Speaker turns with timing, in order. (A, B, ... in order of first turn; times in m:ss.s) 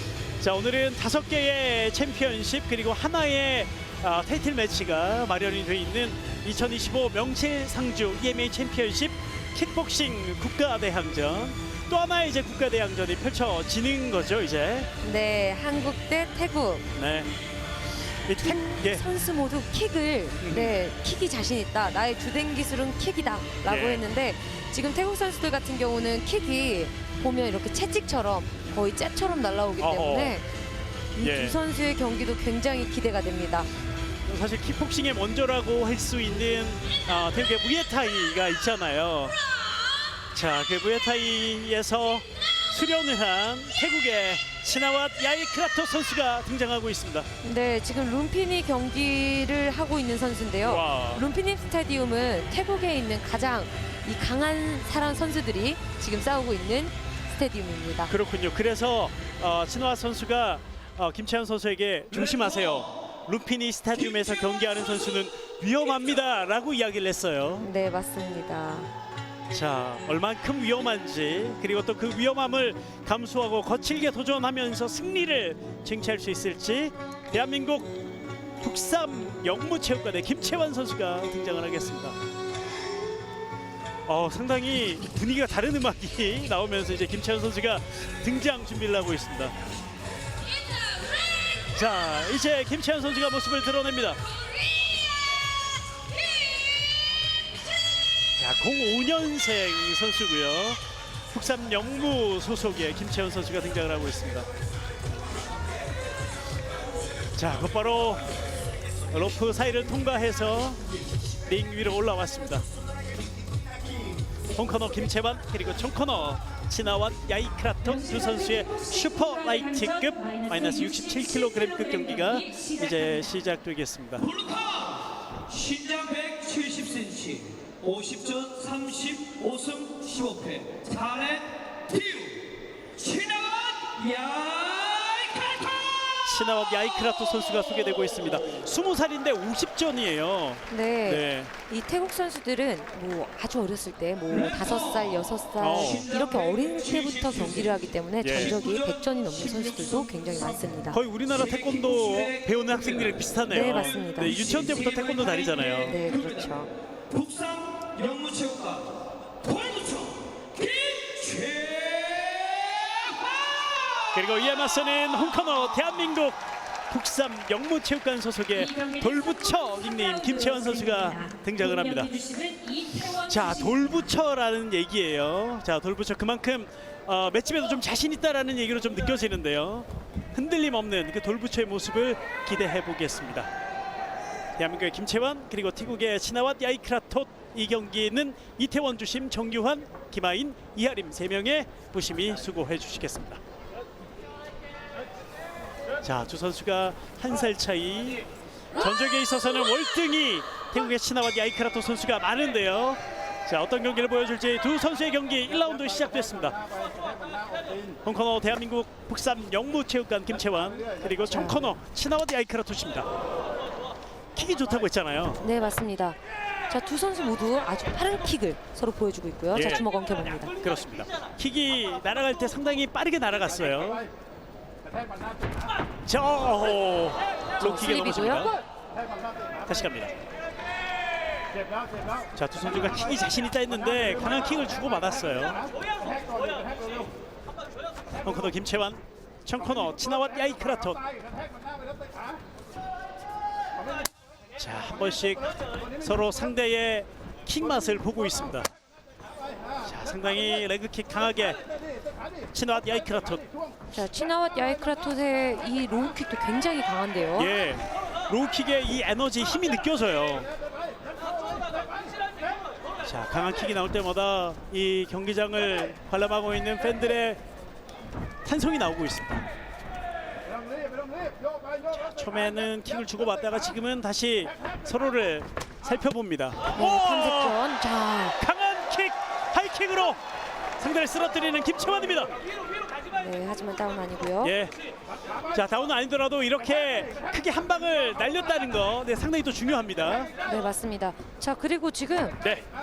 0:00.4-0:14.9 A
0:15.0-0:16.9 B
0:17.0-0:17.3 A
0:18.3-0:19.0 A
0:18.4-0:30.5 B
0:20.4-0:20.8 A
0:23.7-0:24.0 A
0:29.8-0:30.4 A
0:31.2-0:33.7 B
0:31.2-0:31.6 A
0:34.3-0:39.4 A
0:40.3-0:47.3 A
0:47.4-0:58.1 B
0:50.6-0:51.2 A
0:58.1-1:07.7 A
1:07.6-1:08.9 B
1:09.5-1:18.0 A
1:18.6-1:22.2 A
1:24.1-1:29.5 A
1:31.7-1:34.2 A
1:38.4-1:40.8 A
1:41.3-1:44.5 A
1:47.4-1:48.2 A
1:49.1-1:50.8 A
1:51.5-1:52.6 A
1:54.6-2:04.4 A
2:05.5-2:12.4 C
2:13.0-2:15.7 C
2:16.2-2:21.5 A
2:20.7-2:31.0 B
2:25.6-2:26.1 A
2:28.2-2:28.6 A
2:30.9-2:36.0 A
2:33.5-2:34.4 B
2:35.8-2:36.7 B
2:37.1-2:38.8 C
2:39.4-2:43.2 C
2:44.1-2:52.4 A
2:52.4-2:52.8 B
2:52.9-3:03.5 A
3:04.6-3:13.4 A
3:16.0-3:18.2 A
3:18.8-3:26.6 A
3:28.0-3:33.1 A
3:31.2-3:31.7 B
3:34.4-3:35.4 A
3:35.4-3:36.2 B
3:36.7-3:40.6 B
3:39.5-3:39.8 A
3:40.6-3:44.0 A
3:46.1-3:48.6 A
3:47.6-3:48.6 B
3:49.7-3:50.1 A
3:52.4-3:55.6 A
3:58.2-4:01.0 A
4:04.6-4:08.7 A
4:09.8-4:11.6 A
4:12.5-4:13.4 A
4:13.9-4:17.5 B
4:17.4-4:20.5 A
4:23.0-4:27.4 A
4:28.4-4:29.4 A
4:31.9-4:37.6 A
4:36.8-4:38.4 B
4:38.3-4:40.2 A
4:40.8-4:42.3 A
4:43.1-4:44.5 B
4:44.4-4:44.8 A
4:45.5-4:50.3 A
4:50.4-4:52.4 B